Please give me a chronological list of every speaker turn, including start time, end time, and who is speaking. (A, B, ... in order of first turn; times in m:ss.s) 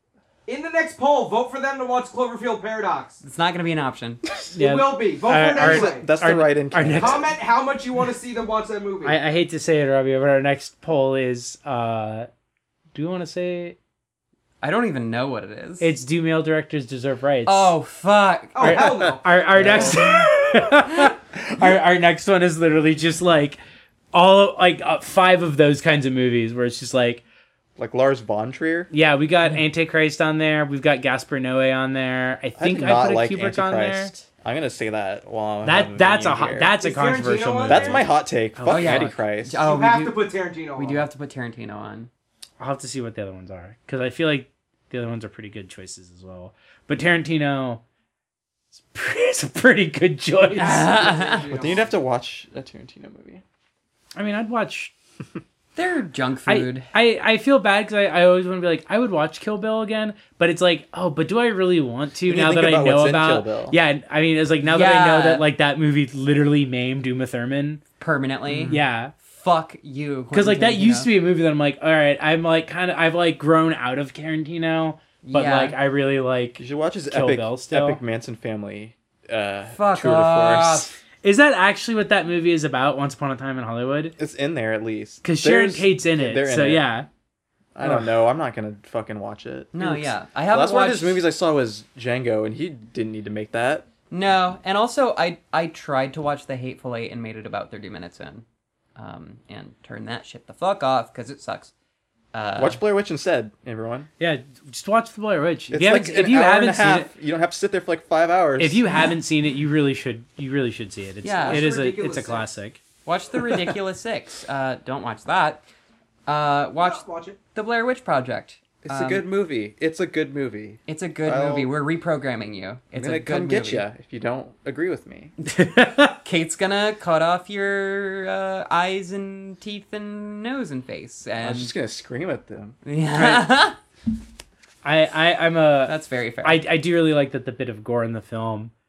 0:00.4-0:03.2 A
0:03.2-0:04.2 B
0:04.5-0:07.3 C
0:04.5-0:06.1 A
0:05.6-0:07.3 D
0:06.9-0:09.2 A
0:09.0-0:12.3 C
0:12.9-0:13.8 C
0:14.6-0:15.9 B
0:15.8-0:17.8 C
0:17.5-0:18.8 B
0:18.5-0:19.2 A
0:18.6-0:23.6 C
0:18.8-0:20.3 D
0:24.1-0:27.2 C
0:27.8-0:28.9 D
0:28.9-0:34.1 C
0:32.6-0:36.7 D
0:35.6-0:39.2 C
0:36.8-0:38.0 A
0:37.7-0:39.6 D
0:38.7-0:42.1 B
0:39.6-0:41.1 A
0:42.6-0:47.8 C
0:48.7-0:51.0 C
0:50.6-0:51.5 B
0:50.6-0:51.9 A
0:51.2-0:53.4 D
0:54.2-0:54.9 C
0:55.7-0:56.9 B
0:56.5-1:07.8 C
1:02.2-1:03.8 D
1:04.6-1:05.4 B
1:08.0-1:11.1 B
1:08.6-1:09.1 C
1:10.3-1:18.0 C
1:15.2-1:15.8 B
1:16.6-1:20.9 D
1:19.7-1:20.9 B
1:21.2-1:24.1 C
1:24.2-1:26.8 D
1:25.2-1:27.1 C
1:27.7-1:33.9 D
1:29.7-1:31.2 B
1:34.1-1:38.4 B
1:39.0-1:41.7 B
1:42.3-1:42.8 B
1:42.6-1:44.1 D
1:44.2-1:47.1 C
1:45.7-1:48.8 D
1:48.6-1:52.8 C
1:51.2-1:51.6 B
1:51.4-1:52.4 A
1:53.0-1:55.6 B
1:56.2-1:59.2 B
1:56.8-1:57.4 A
1:58.8-2:01.7 D
2:00.9-2:03.8 B
2:03.0-2:05.3 D
2:05.5-2:06.2 C
2:06.2-2:11.7 B
2:11.4-2:13.4 D
2:12.8-2:13.8 B
2:14.8-2:18.7 C
2:15.8-2:16.6 B